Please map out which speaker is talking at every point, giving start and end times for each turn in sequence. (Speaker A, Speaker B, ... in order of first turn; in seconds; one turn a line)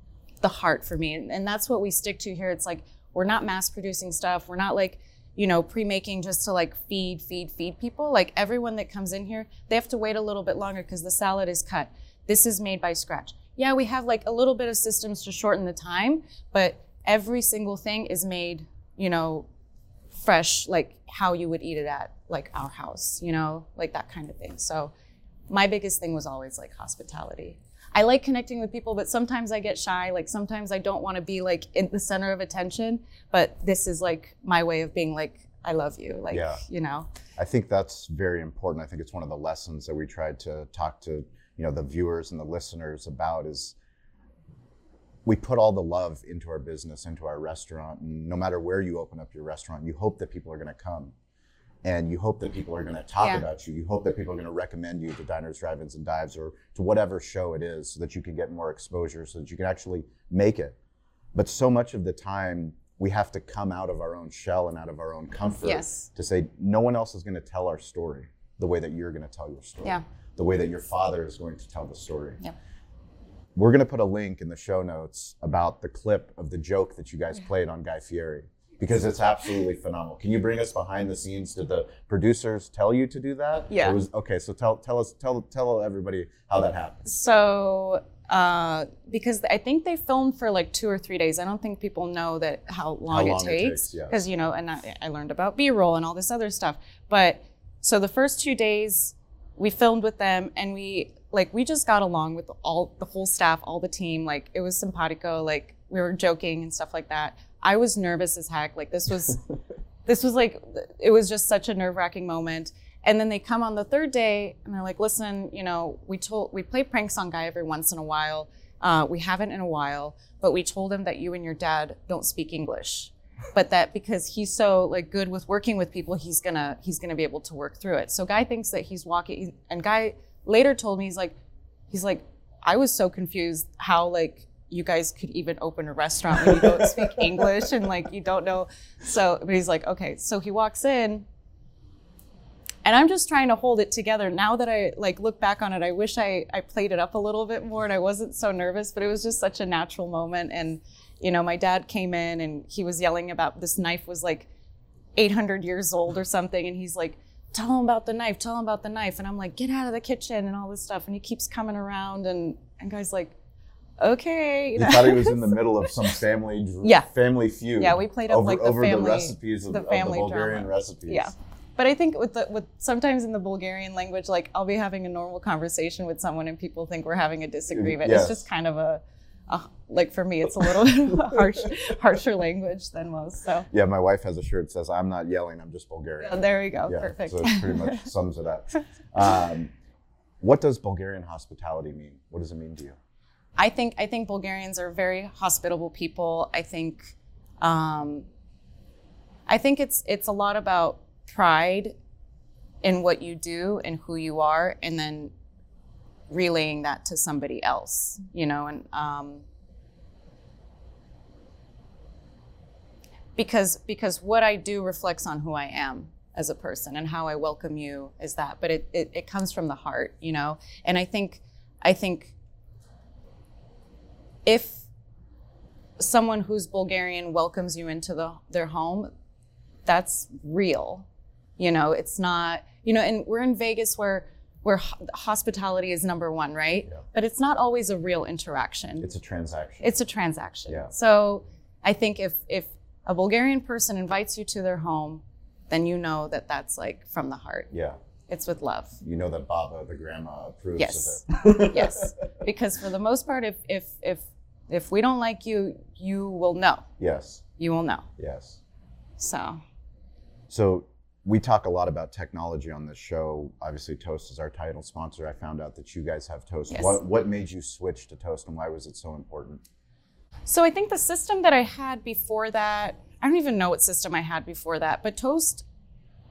Speaker A: 0.4-19.5
Speaker A: 20.1-24.9
Speaker A: 25.5-37.1
Speaker B: 36.3-36.6
Speaker B: 37.4-43.8
Speaker B: 45.3-51.1
Speaker B: 51.8-60.8
Speaker B: 61.4-72.4
Speaker A: 65.6-66.1
Speaker B: 73.6-87.1
Speaker A: 83.7-84.0
Speaker A: 87.0-109.4
Speaker B: 93.1-94.2
Speaker A: 110.1-131.4
Speaker A: 131.9-141.3
Speaker A: 142.8-154.5
Speaker A: 155.2-163.3
Speaker A: 164.0-165.6
Speaker B: 164.8-171.3
Speaker A: 166.8-167.1
Speaker A: 167.8-183.7
Speaker B: 177.7-178.4
Speaker B: 183.7-189.7
Speaker A: 186.2-188.0
Speaker B: 190.4-193.0
Speaker A: 193.6-198.3
Speaker A: 199.5-201.9
Speaker A: 202.8-205.3
Speaker A: 206.3-209.4
Speaker A: 213.4-222.3
Speaker A: 224.4-224.9
Speaker A: 226.0-229.1
Speaker A: 229.9-231.1
Speaker A: 231.6-239.1
Speaker B: 239.0-239.9
Speaker A: 239.8-247.7
Speaker B: 247.7-248.0
Speaker A: 248.3-249.0
Speaker B: 249.0-252.2
Speaker A: 250.8-256.9
Speaker B: 257.0-257.4
Speaker A: 257.6-258.1
Speaker B: 258.2-258.6
Speaker A: 259.2-259.6
Speaker B: 260.5-269.6
Speaker A: 266.7-267.0
Speaker A: 270.5-275.7